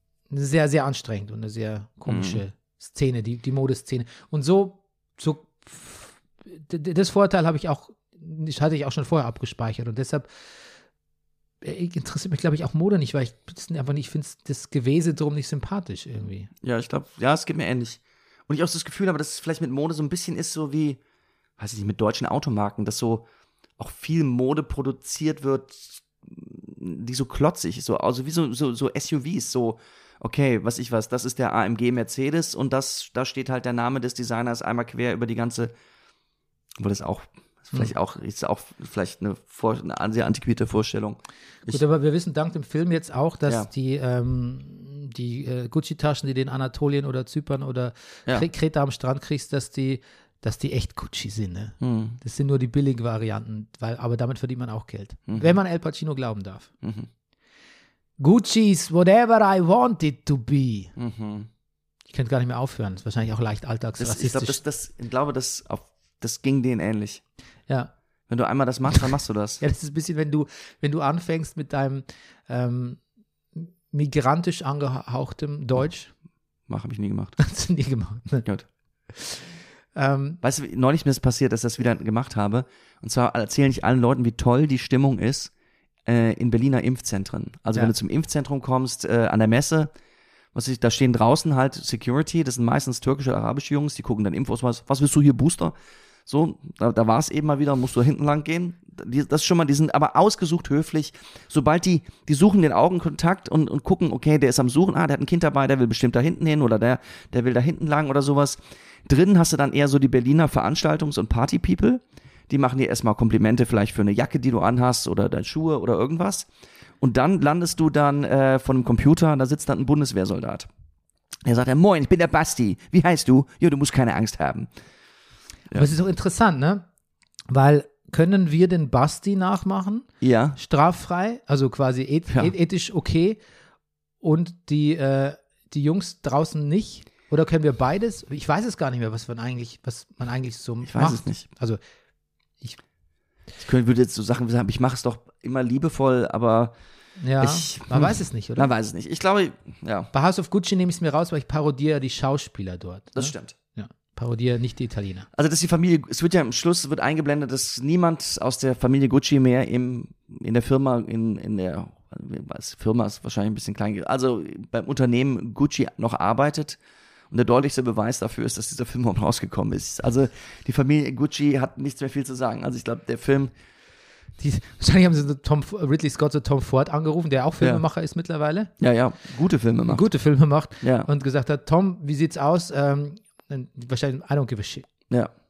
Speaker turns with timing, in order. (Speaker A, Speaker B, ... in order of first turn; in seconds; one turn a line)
Speaker A: 0.3-10.2
Speaker B: 2.1-2.4
Speaker A: 11.6-16.5
Speaker B: 16.6-21.0
Speaker B: 21.6-23.2
Speaker B: 23.8-35.7
Speaker B: 36.8-41.8
Speaker A: 41.6-56.7
Speaker B: 51.8-52.2
Speaker B: 55.3-55.5
Speaker B: 56.8-57.1
Speaker A: 58.2-60.9
Speaker B: 61.0-61.5
Speaker A: 62.1-64.6
Speaker B: 64.0-67.2
Speaker B: 68.3-69.6
Speaker A: 69.6-73.0
Speaker A: 73.5-76.1
Speaker B: 76.7-77.3
Speaker A: 77.4-78.5
Speaker A: 79.1-79.4
Speaker A: 79.9-80.4
Speaker B: 80.4-85.5
Speaker B: 86.0-89.9
Speaker B: 90.5-95.7
Speaker B: 96.2-116.5
Speaker B: 117.0-120.7
Speaker B: 121.4-124.7
Speaker A: 125.7-126.8
Speaker A: 127.5-133.4
Speaker B: 130.2-130.6
Speaker A: 134.2-141.8
Speaker B: 140.8-141.4
Speaker B: 143.6-146.7
Speaker A: 147.2-148.7
Speaker B: 147.4-150.1
Speaker A: 150.1-155.3
Speaker B: 153.1-153.6
Speaker B: 155.3-166.8
Speaker B: 167.3-173.5
Speaker A: 174.4-178.7
Speaker B: 178.8-180.0
Speaker A: 179.9-184.9
Speaker B: 180.8-181.1